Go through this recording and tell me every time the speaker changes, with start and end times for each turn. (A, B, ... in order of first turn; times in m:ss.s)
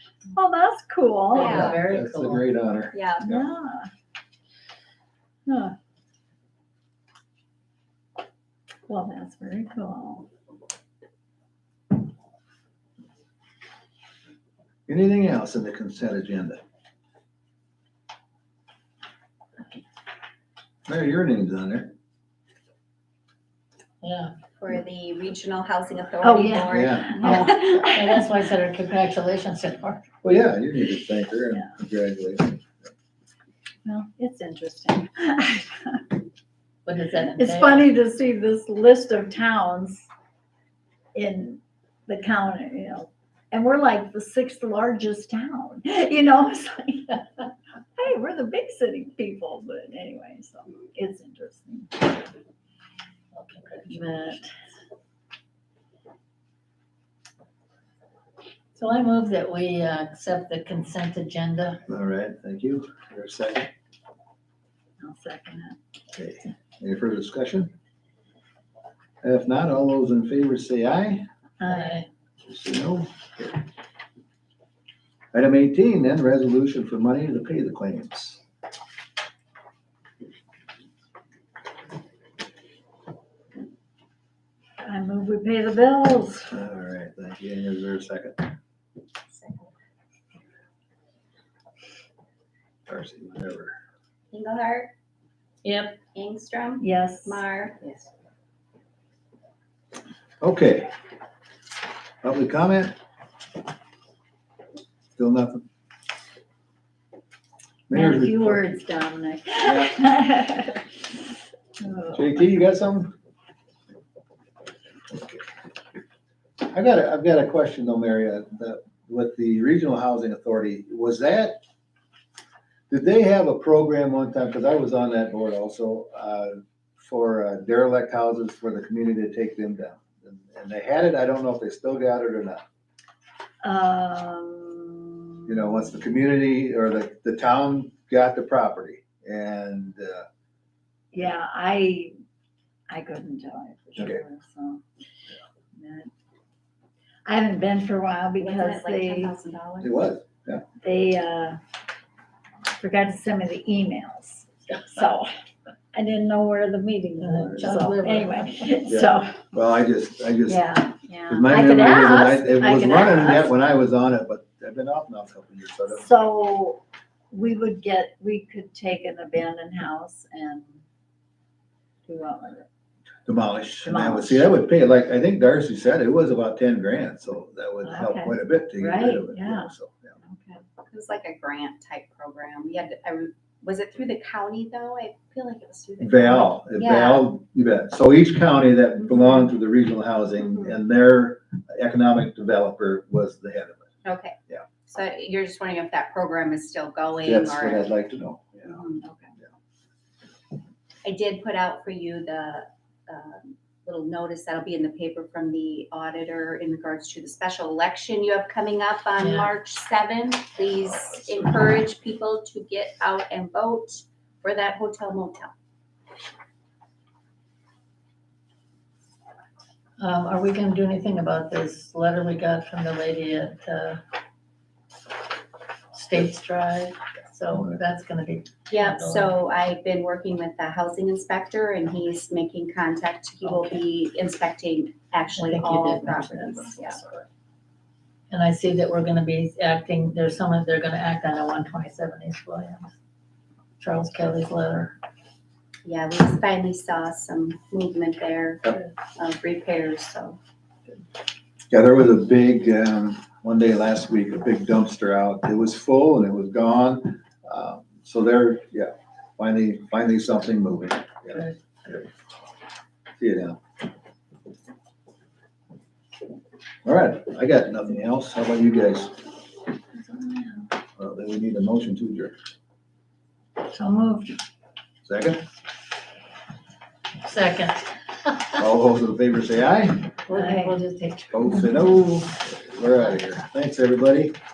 0:00.3-0:01.6 A
0:01.3-0:01.8 B
0:01.3-0:02.4 C
0:01.4-0:03.5 D
0:02.9-0:03.3 B
0:03.3-0:03.9 A
0:05.5-0:05.7 A
0:08.9-0:10.3 A
0:14.9-0:16.6 D
0:20.9-0:21.9 D
0:24.0-0:24.3 C
0:24.6-0:27.9 B
0:26.2-0:28.2 A
0:26.7-0:27.2 D
0:27.2-0:30.0 C
0:30.2-0:32.9 D
0:33.8-0:36.0 A
0:36.9-0:37.9 C
0:37.4-0:40.1 A
0:41.1-0:47.4 A
0:48.0-0:52.3 A
0:53.3-0:54.4 C
0:53.9-0:54.5 A
0:58.8-1:01.8 C
1:01.9-1:03.7 D
1:05.0-1:05.8 A
1:06.1-1:07.7 D
1:09.2-1:11.2 D
1:11.6-1:12.0 A
1:11.7-1:12.1 C
1:12.4-1:13.6 D
1:15.3-1:18.4 D
1:24.8-1:26.5 A
1:26.5-1:28.5 D
1:29.3-1:29.7 B
1:32.9-1:33.8 D
1:34.3-1:34.9 B
1:35.6-1:36.0 C
1:36.1-1:38.1 B
1:36.8-1:37.4 A
1:40.4-1:40.9 D
1:42.2-1:43.0 D
1:45.2-1:45.6 D
1:47.9-1:48.7 D
1:47.9-1:50.8 A
1:51.8-1:52.4 A
1:52.1-1:53.1 D
1:55.1-1:55.4 D
1:56.6-2:01.6 D
2:02.9-2:12.6 D
2:13.6-2:15.9 A
2:15.5-2:20.3 D
2:21.1-2:22.1 A
2:22.9-2:24.8 A
2:25.8-2:26.1 A
2:27.2-2:29.4 A
2:28.4-2:30.0 B
2:29.8-2:30.6 D
2:30.8-2:31.6 A
2:32.8-2:35.3 A
2:35.9-2:39.4 A
2:37.2-2:38.8 C
2:38.9-2:46.1 D
2:40.5-2:43.5 A
2:45.9-2:46.8 A
2:47.3-2:50.8 A
2:52.1-2:52.7 A
2:53.3-3:00.2 D
2:53.8-2:54.5 A
2:57.8-3:00.6 A
3:00.9-3:07.3 B
3:06.0-3:13.9 D
3:14.0-3:17.9 B
3:17.2-3:18.8 D
3:18.7-3:19.0 B
3:19.0-3:19.3 A
3:21.0-3:35.5 B
3:29.2-3:29.5 C
3:40.0-3:44.0 C
3:45.9-3:49.3 C
3:47.5-3:47.8 D
3:48.7-3:57.0 B
3:55.4-3:57.3 C
3:58.3-4:02.9 C
4:03.8-4:05.0 C
4:05.8-4:10.4 B
4:11.7-4:22.1 D
4:21.3-4:21.6 C
4:23.2-4:23.6 D
4:26.8-4:29.2 D
4:30.0-4:30.7 A
4:31.0-4:32.4 D
4:33.7-4:34.1 A
4:35.0-4:35.4 D
4:37.2-4:38.7 C
4:38.6-4:40.1 D
4:40.2-4:41.9 C
4:40.3-4:40.8 A
4:41.3-4:44.4 D